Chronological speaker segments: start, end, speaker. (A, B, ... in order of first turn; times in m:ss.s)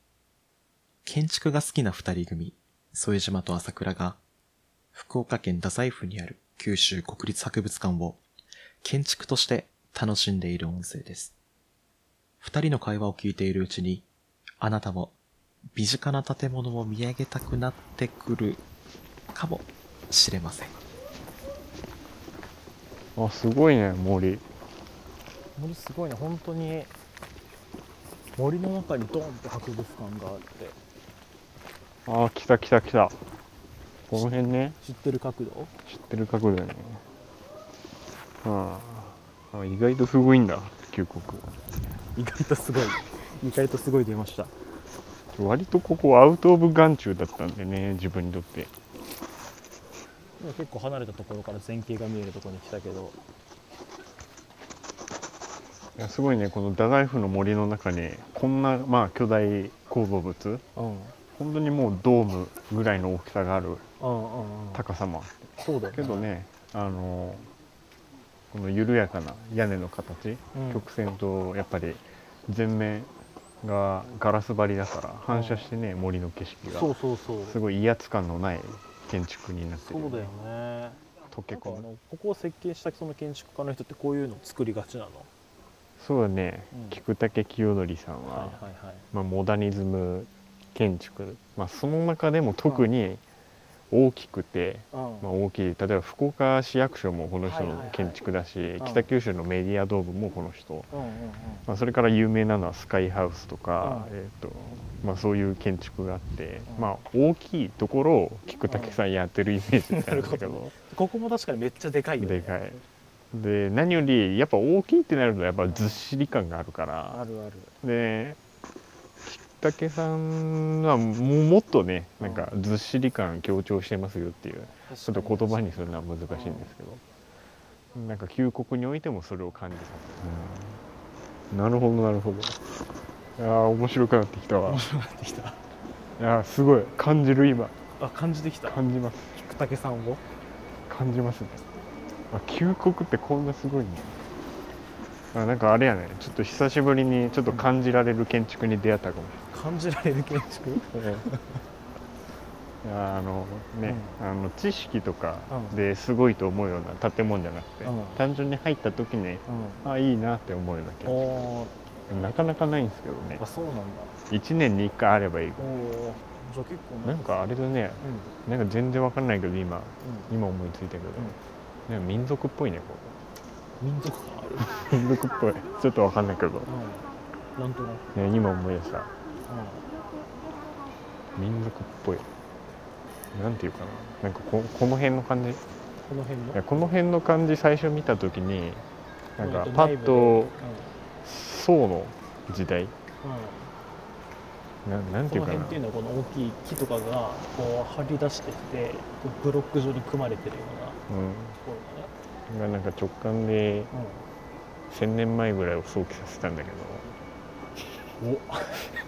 0:01.0-0:04.2 A
0:04.9-0:08.2 A
0:08.8-0:11.3 A
0:12.4-0:14.1 A
0:14.6-0:15.2 A
0:15.7-0:18.6 A
0:19.3-0:20.8 A
0:23.2-0:24.5 B
0:25.6-0:26.9 C
0:28.3-0:30.8 C
0:32.1-0:33.2 B
0:34.1-0:34.8 B
0:34.1-0:35.7 C
0:35.9-0:37.0 B
0:38.4-0:41.5 B
0:42.2-0:44.5 C
0:45.3-0:48.7 B
0:50.4-0:53.2 C
0:56.0-1:00.6 B
1:00.8-1:01.2 C
1:01.4-1:03.8 B
1:04.0-1:04.9 C
1:04.7-1:07.5 B
1:05.6-1:06.2 C
1:08.5-1:13.1 B
1:10.5-1:10.9 C
1:13.6-1:16.9 B
1:15.3-1:15.7 C
1:16.7-1:17.6 C
1:17.4-1:20.3 B
1:19.8-1:25.3 C
1:21.3-1:21.9 B
1:26.0-1:33.2 B
1:26.7-1:27.0 C
1:28.3-1:29.1 C
1:33.9-1:40.9 B
1:34.9-1:35.3 C
1:37.4-1:39.1 C
1:40.9-1:41.7 C
1:41.7-1:50.7 B
1:43.8-1:44.2 C
1:46.7-1:47.0 C
1:48.7-1:49.0 C
1:49.9-1:52.7 C
1:52.2-1:57.2 B
1:55.7-1:56.0 C
1:57.1-1:57.7 C
1:57.8-1:58.4 B
1:59.2-2:07.0 B
2:02.2-2:02.6 C
2:04.9-2:06.7 C
2:07.9-2:10.8 B
2:11.5-2:12.6 B
2:13.4-2:14.8 B
2:14.6-2:15.6 C
2:16.2-2:17.8 B
2:18.0-2:18.8 C
2:18.6-2:19.4 B
2:19.3-2:20.2 C
2:20.9-2:21.6 B
2:22.3-2:24.2 B
2:25.3-2:29.4 B
2:29.5-2:31.6 C
2:30.9-2:31.3 B
2:32.8-2:41.2 B
2:33.8-2:34.2 C
2:35.5-2:35.8 C
2:37.8-2:38.2 C
2:39.5-2:39.9 C
2:41.0-2:41.7 C
2:42.1-2:43.4 B
2:43.4-2:44.2 C
2:44.3-2:45.7 B
2:45.6-2:48.3 C
2:47.0-2:53.2 B
2:50.0-2:50.4 C
2:53.8-2:54.9 C
2:54.6-2:56.7 B
2:56.6-2:58.1 C
2:58.1-2:59.1 B
2:59.5-2:59.9 C
3:01.4-3:02.3 B
3:03.3-3:05.6 B
3:06.1-3:06.9 C
3:06.5-3:10.6 B
3:09.4-3:11.0 C
3:11.2-3:13.0 B
3:13.2-3:13.7 C
3:14.8-3:15.8 B
3:15.3-3:21.0 C
3:21.1-3:21.6 B
3:21.6-3:22.1 C
3:22.5-3:23.9 B
3:23.9-3:24.3 C
3:24.9-3:27.1 B
3:28.2-3:28.9 C